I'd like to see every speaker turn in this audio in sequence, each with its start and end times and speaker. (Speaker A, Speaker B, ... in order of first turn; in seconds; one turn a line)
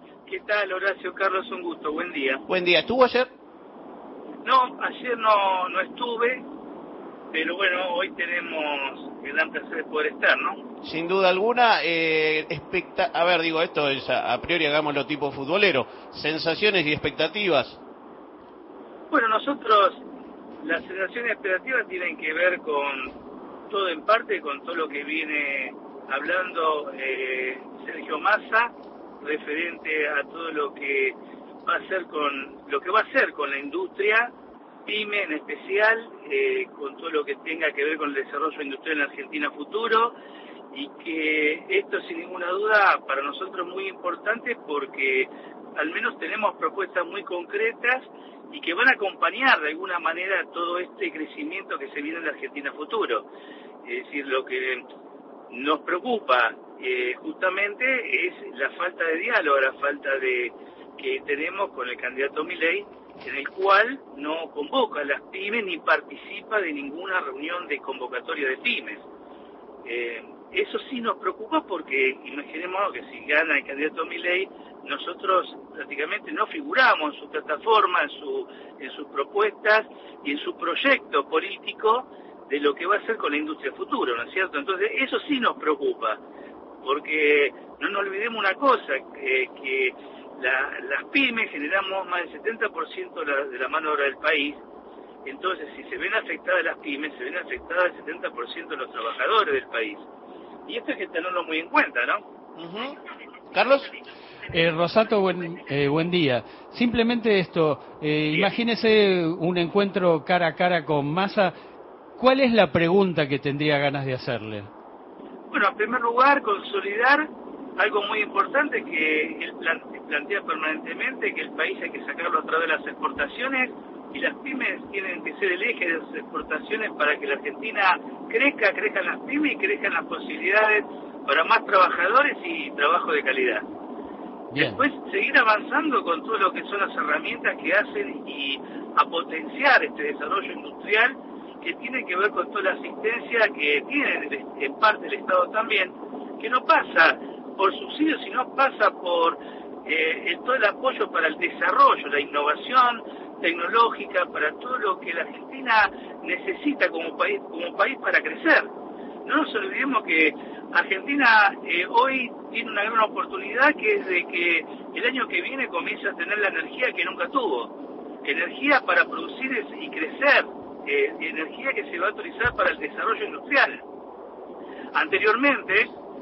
Speaker A: 0.3-2.4
Speaker B: 2.5-3.3
Speaker A: 4.5-6.4
Speaker A: 7.3-10.6
Speaker B: 10.8-17.8
Speaker A: 19.1-20.0
Speaker A: 20.6-23.1
Speaker A: 23.7-34.3
Speaker A: 34.9-40.1
Speaker A: 40.7-53.2
Speaker A: 53.9-54.8
Speaker A: 55.5-69.0
Speaker A: 69.9-86.2
Speaker A: 86.8-94.6
Speaker A: 95.3-100.1
Speaker A: 100.7-102.2
Speaker B: 102.6-103.0
Speaker B: 103.5-103.9
Speaker C: 104.5-111.5
Speaker C: 112.2-114.7
Speaker A: 115.5-133.6
Speaker C: 134.5-134.8
Speaker A: 134.6-158.7
Speaker A: 159.2-167.7
Speaker A: 168.2-173.8
Speaker A: 174.9-175.9